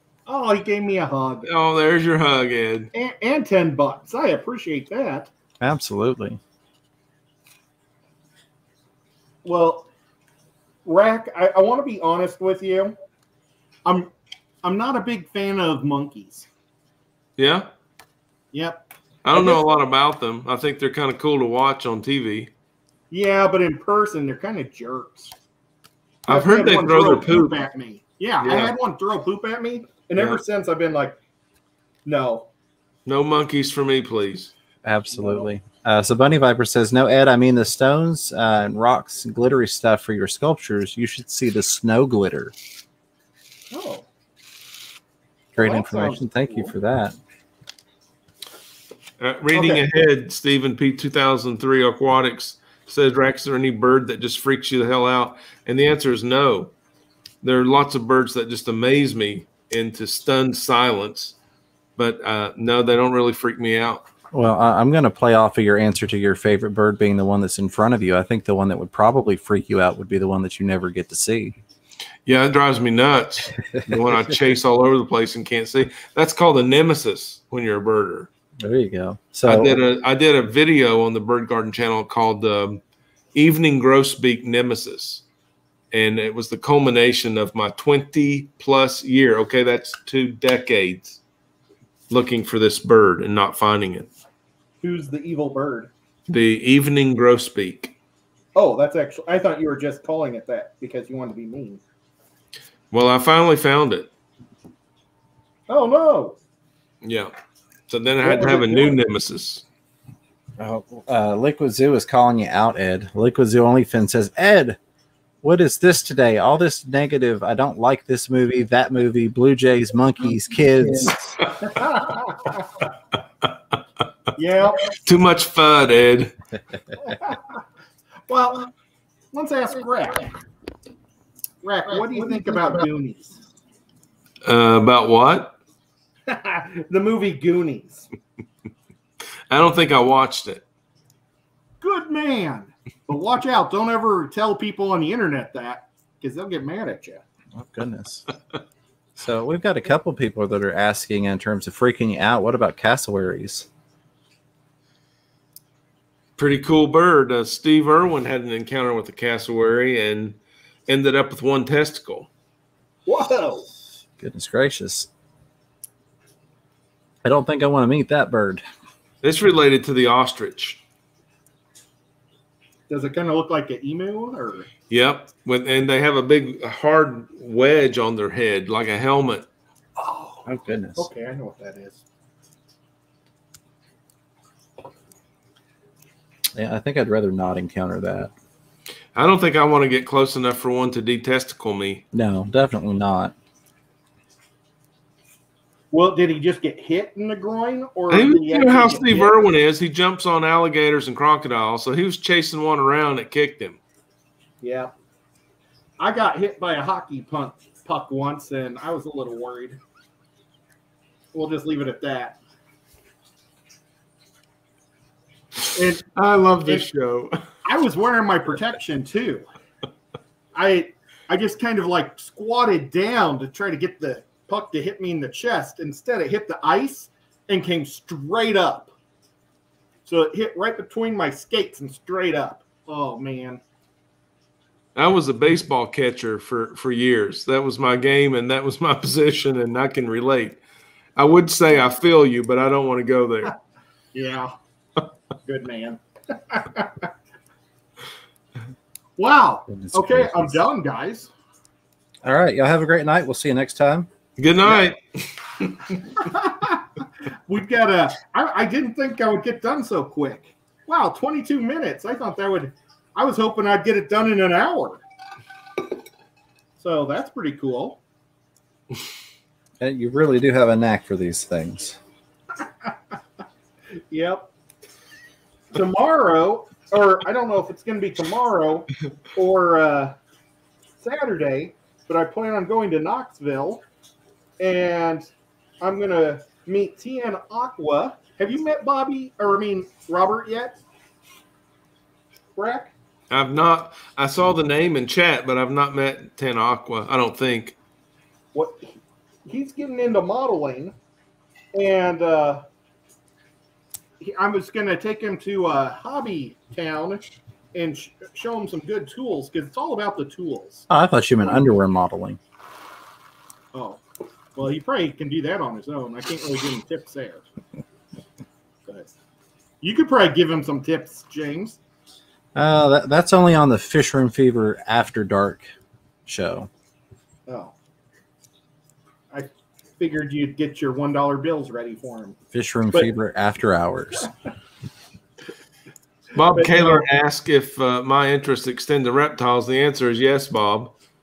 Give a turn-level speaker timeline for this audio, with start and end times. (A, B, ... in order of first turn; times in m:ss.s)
0:00.3-0:01.5 A
0:01.4-0:02.9 B
0:02.9-0:05.3 A
0:05.6-0:06.4 C
0:09.4-0:09.9 A
0:10.8-0:12.9 A
0:14.6-0:16.5 A
0:17.4-0:17.7 B
0:18.5-0:19.6 A
0:19.2-0:22.5 B
0:23.1-0:25.3 A
0:26.2-0:27.6 B
0:26.3-0:31.2 A
0:28.4-0:28.7 B
0:32.0-0:32.5 A
0:33.0-0:34.5 B
0:34.8-0:42.5 C
0:35.1-0:35.5 A
0:43.7-0:44.0 A
0:45.5-0:47.2 C
0:45.6-0:46.7 A
0:49.2-0:56.7 B
0:49.5-0:49.8 A
0:57.4-1:01.3 B
1:02.0-1:04.0 B
1:04.3-1:11.6 C
1:12.2-1:18.3 B
1:18.6-1:19.8 C
1:19.4-1:22.8 B
1:23.3-1:25.2 B
1:25.9-1:31.2 B
1:32.1-1:34.1 B
1:34.8-1:35.9 A
1:36.3-1:37.9 B
1:38.5-1:41.8 A
1:42.9-1:44.1 B
1:45.7-1:46.4 A
1:47.0-1:47.3 B
1:47.9-1:49.6 B
1:48.2-1:49.0 A
1:50.6-1:54.8 C
1:55.4-2:01.4 C
2:01.6-2:02.8 A
2:04.3-2:04.9 A
2:04.9-2:06.3 B
2:07.0-2:07.5 A
2:08.3-2:08.7 A
2:09.3-2:10.3 A
2:11.6-2:13.4 A
2:14.4-2:15.5 B
2:16.3-2:18.1 A
2:19.5-2:20.6 B
2:21.8-2:27.2 A
2:27.5-2:28.2 C
2:29.2-2:33.7 C
2:36.4-2:42.3 B
2:43.1-2:43.6 A
2:44.2-2:45.1 C
2:47.2-2:48.6 C
2:49.2-2:50.8 B
2:52.9-2:54.7 A
2:54.9-2:59.5 B
3:00.0-3:02.0 A
3:00.4-3:01.1 C
3:06.5-3:08.3 C
3:09.1-3:12.0 B
3:12.1-3:13.3 C
3:15.9-3:19.4 A
3:18.1-3:23.8 B
3:24.6-3:24.9 A
3:26.0-3:29.8 A
3:31.3-3:32.4 A
3:35.7-3:36.0 A
3:36.1-3:37.4 B
3:37.6-3:39.4 A
3:40.5-3:48.9 A
3:50.0-3:53.6 A
3:54.9-4:00.6 B
4:01.2-4:03.5 B
4:04.1-4:04.5 A
4:05.4-4:07.1 A
4:09.2-4:11.3 A
4:09.7-4:10.6 C
4:12.2-4:14.1 C
4:14.4-4:15.8 B
4:16.1-4:16.9 A
4:17.5-4:25.0 A
4:26.8-4:28.0 A
4:29.8-4:32.0 C
4:34.1-4:34.5 A
4:35.7-4:40.1 A
4:41.0-4:43.8 A
4:44.6-4:45.3 A
4:45.8-4:50.8 A
4:52.6-4:52.9 A
4:53.3-4:57.7 B
4:58.5-5:00.9 A
5:01.7-5:02.6 A
5:04.2-5:07.2 A
5:07.7-5:10.9 A
5:10.9-5:12.4 C
5:13.7-5:14.0 A
5:14.5-5:17.4 A
5:18.9-5:19.1 A
5:19.8-5:21.8 A
5:22.5-5:25.7 C
5:26.2-5:26.7 C
5:27.5-5:27.7 A
5:29.3-5:32.4 A
5:32.5-5:34.3 C
5:36.3-5:40.9 B
5:36.5-5:37.0 A